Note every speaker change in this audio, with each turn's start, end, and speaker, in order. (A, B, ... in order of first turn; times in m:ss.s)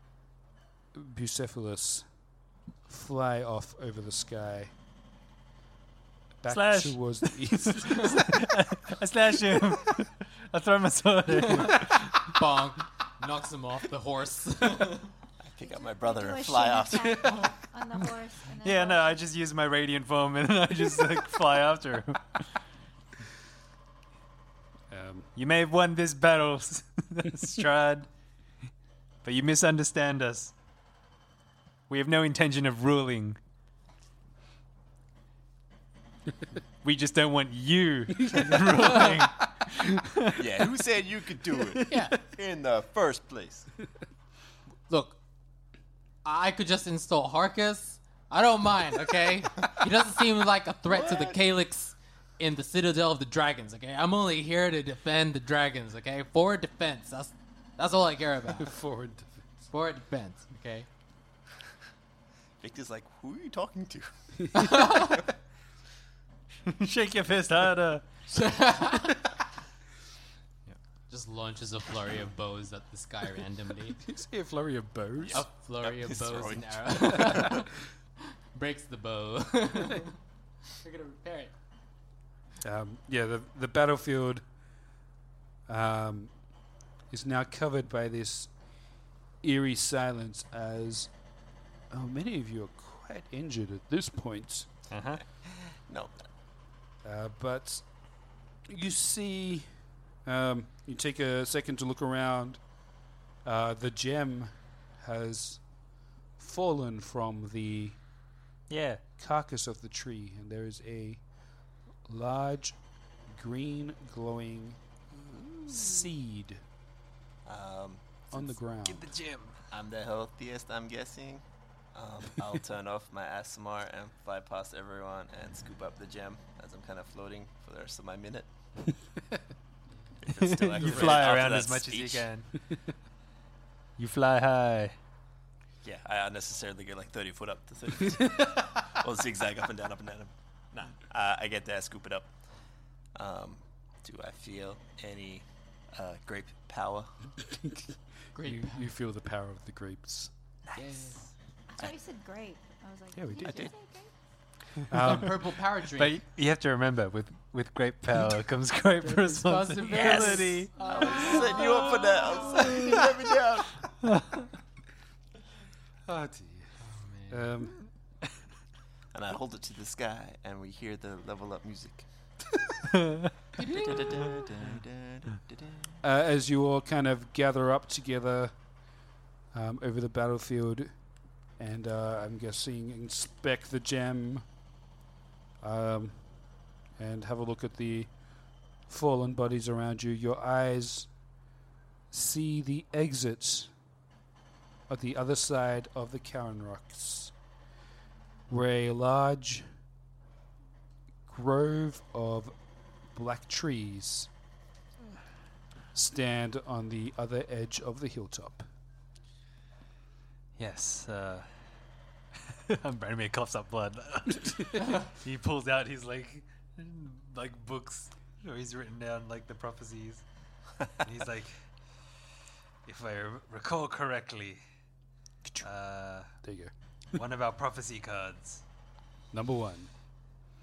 0:00.9-0:02.0 A
0:02.9-0:04.7 A
0:06.4-0:08.3 A
0:06.5-0:12.3 B
0:11.5-0:15.1 C
0:15.4-0:17.5 D
0:15.6-0:19.3 E
0:18.6-0:22.4 B
0:24.9-0:25.3 A
0:25.4-0:28.1 B
0:29.2-0:30.5 B
0:31.9-0:33.4 B
0:36.8-0:40.4 B
0:38.2-0:38.9 A
0:40.4-0:43.7 D
0:41.9-0:42.2 C
0:44.9-0:45.2 C
0:46.2-0:58.7 C
0:50.9-0:51.4 D
0:58.6-0:59.4 A
0:59.7-1:00.9 C
1:02.6-1:05.0 D
1:04.5-1:05.2 C
1:06.7-1:08.0 B
1:08.3-1:09.2 C
1:11.1-1:14.0 C
1:14.0-1:15.4 A
1:15.2-1:17.6 D
1:15.3-1:17.7 C
1:18.5-1:20.1 C
1:20.8-1:21.5 C
1:22.6-1:24.4 A
1:25.7-1:26.3 A
1:27.1-1:28.5 A
1:29.4-1:31.1 A
1:31.9-1:34.7 A
1:34.9-1:35.2 B
1:35.4-1:36.2 D
1:37.0-1:37.8 A
1:38.7-1:39.6 A
1:40.2-1:42.6 A
1:43.4-1:45.6 A
1:46.4-1:48.0 A
1:48.7-1:49.0 B
1:49.2-1:51.2 A
1:52.1-1:52.8 A
1:53.3-1:54.8 A
1:55.2-1:56.0 B
1:55.7-1:56.6 A
1:57.4-1:58.2 D
1:58.3-1:59.1 A
1:58.8-1:59.6 B
1:59.7-2:01.4 D
2:01.9-2:08.5 D
2:10.2-2:12.3 D
2:10.4-2:12.5 B
2:10.8-2:11.3 A
2:14.0-2:14.9 B
2:15.8-2:22.3 D
2:23.2-2:27.1 D
2:27.5-2:30.3 A
2:28.4-2:28.9 C
2:30.8-2:31.3 C
2:31.8-2:34.1 E
2:33.2-2:33.7 A
2:33.4-2:33.7 D
2:34.9-2:35.3 A
2:35.0-2:36.1 C
2:36.0-2:40.7 B
2:39.0-2:41.7 C
2:39.9-2:43.8 D
2:40.8-2:42.6 E
2:44.0-2:44.5 B
2:46.1-2:46.7 A
2:46.8-2:47.5 C
2:47.3-2:47.7 A
2:49.1-2:52.0 D
2:52.9-2:53.3 B
2:53.6-2:54.0 C
2:53.6-2:56.0 D
2:56.0-2:58.5 A
2:59.5-3:00.9 A
3:01.6-3:04.5 A
3:05.6-3:06.2 A
3:07.0-3:08.1 A
3:08.9-3:11.1 A
3:12.1-3:13.7 A
3:14.9-3:17.3 A
3:18.5-3:19.6 A
3:21.3-3:22.5 A
3:23.1-3:24.3 A
3:25.9-3:28.6 A
3:30.6-3:31.5 B
3:32.7-3:40.2 B
3:41.0-3:41.5 B
3:42.8-3:44.6 B
3:45.6-3:46.3 B
3:46.4-3:46.7 A
3:47.1-3:48.6 B
3:49.3-3:49.9 A